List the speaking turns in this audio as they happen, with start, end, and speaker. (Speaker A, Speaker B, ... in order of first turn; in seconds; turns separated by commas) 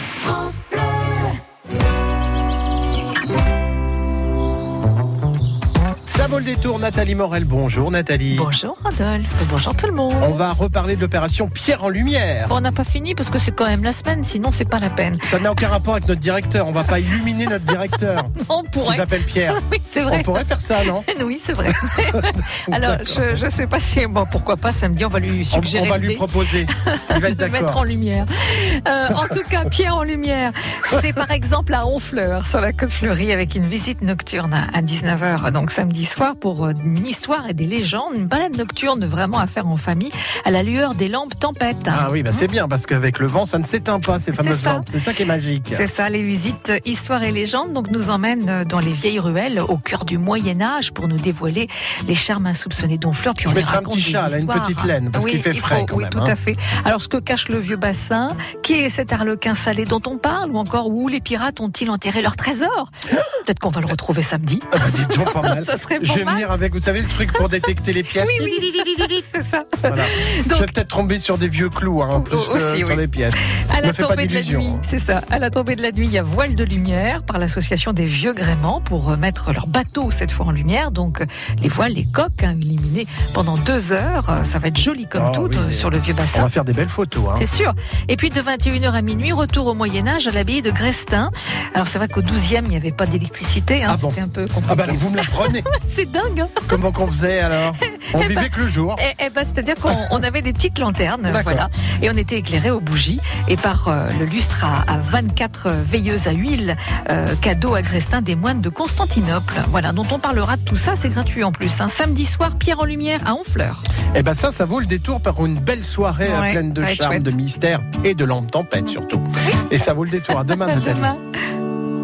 Speaker A: 0.4-0.7, Speaker B: 6.1-8.5, Speaker A: 8.3-10.4, Speaker B: 10.2-12.6, Speaker A: 12.5-15.2, Speaker B: 15.2-21.1, Speaker A: 16.9-17.8, Speaker A: 18.4-42.5, Speaker B: 21.7-23.4, Speaker B: 25.5-27.8, Speaker B: 41.9-45.9, Speaker A: 44.4-44.9, Speaker A: 45.7-66.5, Speaker B: 53.5-56.4, Speaker B: 64.7-69.0, Speaker A: 68.2-70.7, Speaker B: 69.9-74.9, Speaker A: 72.1-86.5, Speaker B: 85.1-87.5, Speaker A: 87.3-96.7, Speaker B: 93.9-95.7, Speaker B: 96.7-99.0, Speaker A: 97.8-113.9, Speaker B: 99.9-100.2, Speaker B: 101.3-101.7, Speaker B: 114.1-121.2, Speaker A: 116.2-117.3, Speaker A: 120.3-121.2